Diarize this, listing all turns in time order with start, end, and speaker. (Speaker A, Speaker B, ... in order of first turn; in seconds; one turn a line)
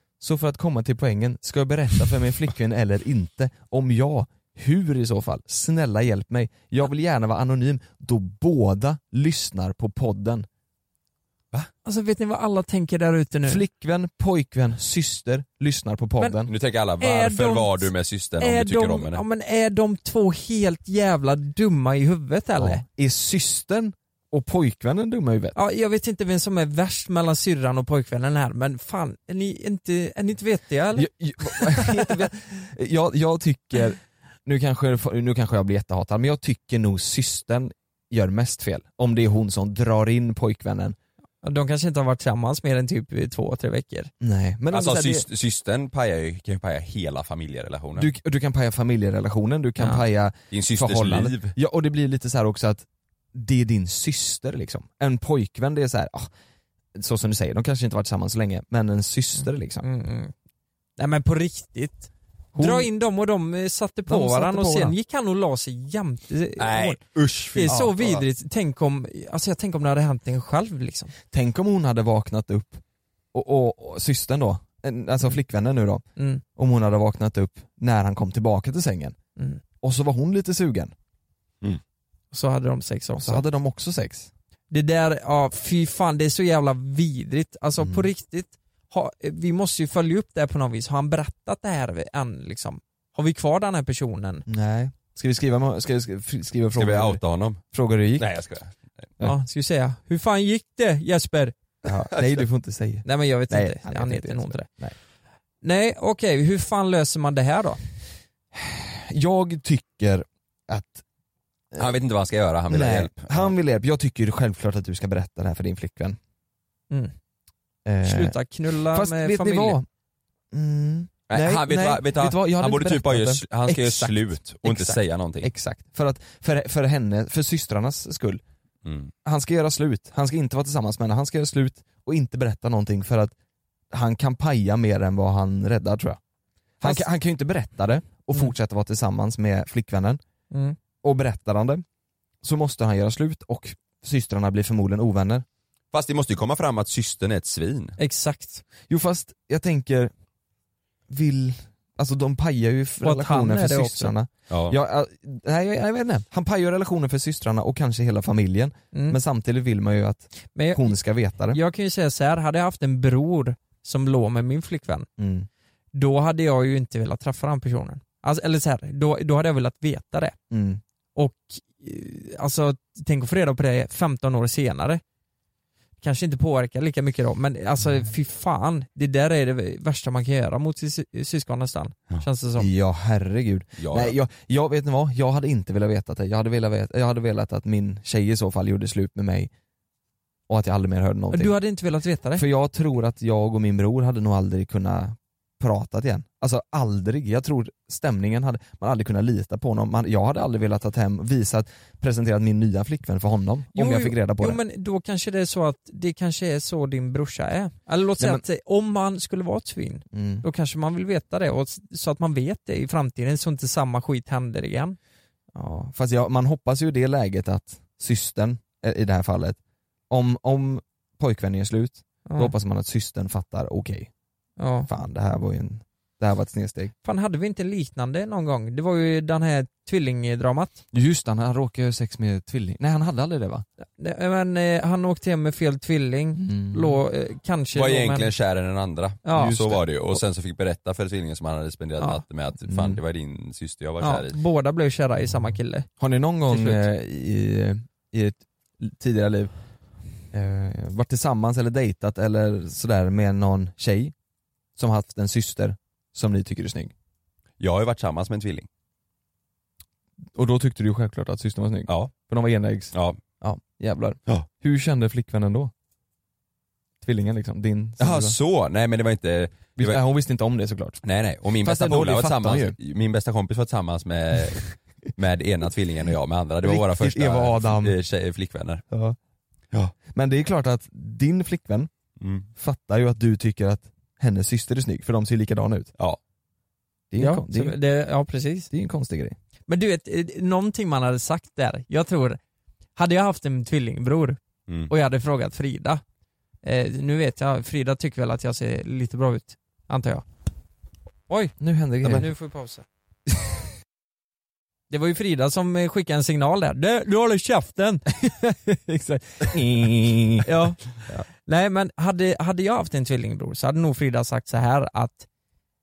Speaker A: 0.2-10.5
Speaker B: 11.8-13.6
Speaker A: 13.4-16.5
Speaker C: 16.5-19.2
Speaker B: 17.0-22.8
Speaker A: 22.6-25.6
Speaker B: 25.6-32.1
Speaker A: 31.0-41.0
Speaker B: 41.4-44.1
Speaker A: 44.2-45.2
Speaker C: 44.7-48.1
Speaker A: 48.0-56.3
Speaker C: 50.5-51.5
Speaker A: 56.9-59.9
Speaker B: 59.4-60.3
Speaker B: 61.0-67.0
Speaker A: 62.5-62.9
Speaker A: 64.1-65.0
Speaker C: 66.6-68.2
Speaker B: 67.5-71.1
Speaker A: 67.7-68.2
Speaker A: 71.3-72.8
Speaker A: 73.3-76.0
Speaker B: 76.2-76.4
Speaker A: 76.6-79.2
Speaker A: 79.8-80.9
Speaker B: 82.3-83.5
Speaker A: 83.2-84.3
Speaker B: 84.7-94.5
Speaker A: 87.8-88.1
Speaker A: 94.5-98.3
Speaker C: 96.8-97.6
Speaker C: 98.2-98.7
Speaker B: 99.2-101.6
Speaker A: 101.8-105.0
Speaker B: 103.0-104.7
Speaker B: 105.6-107.8
Speaker A: 108.5-111.0
Speaker C: 111.8-113.5
Speaker A: 112.7-116.2
Speaker A: 117.8-119.9
Speaker B: 118.0-119.8
Speaker A: 120.5-128.4
Speaker C: 121.3-125.5
Speaker C: 128.8-129.1
Speaker A: 129.2-133.3
Speaker A: 133.9-136.2
Speaker A: 136.8-140.2
Speaker B: 140.5-140.8
Speaker A: 141.0-141.8
Speaker A: 142.4-145.4
Speaker C: 145.9-148.0
Speaker B: 148.0-148.6
Speaker A: 148.9-150.1
Speaker A: 151.1-161.6
Speaker B: 153.0-154.1
Speaker C: 154.5-154.8
Speaker B: 158.9-159.2
Speaker B: 160.5-161.0
Speaker B: 161.5-165.1
Speaker A: 165.2-165.5
Speaker B: 165.9-170.4
Speaker A: 170.5-170.8
Speaker B: 171.2-175.0
Speaker B: 176.0-182.7
Speaker A: 182.6-189.5
Speaker C: 183.8-184.2
Speaker A: 190.5-191.6
Speaker B: 191.3-192.4
Speaker A: 192.4-204.6
Speaker B: 203.7-215.0
Speaker A: 210.1-210.4
Speaker A: 215.5-219.6
Speaker A: 220.1-224.1
Speaker B: 222.3-222.5
Speaker B: 224.6-224.9
Speaker A: 224.9-226.9
Speaker B: 227.0-230.8
Speaker A: 230.9-233.7
Speaker B: 234.0-238.3
Speaker A: 236.4-237.0
Speaker C: 237.7-244.4
Speaker B: 239.2-239.7
Speaker A: 239.4-240.2
Speaker A: 242.7-243.0
Speaker B: 244.0-245.9
Speaker A: 246.0-249.5
Speaker B: 246.5-246.9
Speaker A: 250.3-254.1
Speaker A: 254.8-256.9
Speaker C: 257.6-258.7
Speaker A: 260.4-265.7
Speaker C: 261.9-262.1
Speaker C: 262.9-263.2
Speaker A: 267.0-268.4
Speaker C: 268.0-270.0
Speaker A: 269.8-271.0
Speaker C: 271.0-278.9
Speaker A: 271.6-272.8
Speaker A: 276.6-278.0
Speaker A: 278.9-279.2
Speaker A: 280.1-281.9
Speaker C: 282.2-282.5
Speaker A: 282.6-285.9
Speaker A: 287.1-287.8
Speaker B: 287.2-288.7
Speaker A: 288.7-289.4
Speaker B: 289.7-292.4
Speaker B: 293.0-294.4
Speaker B: 294.9-296.0
Speaker B: 296.6-300.2
Speaker B: 301.3-302.9
Speaker A: 301.6-302.3
Speaker B: 304.9-308.1
Speaker A: 308.2-311.2
Speaker B: 310.4-310.8
Speaker B: 311.5-315.3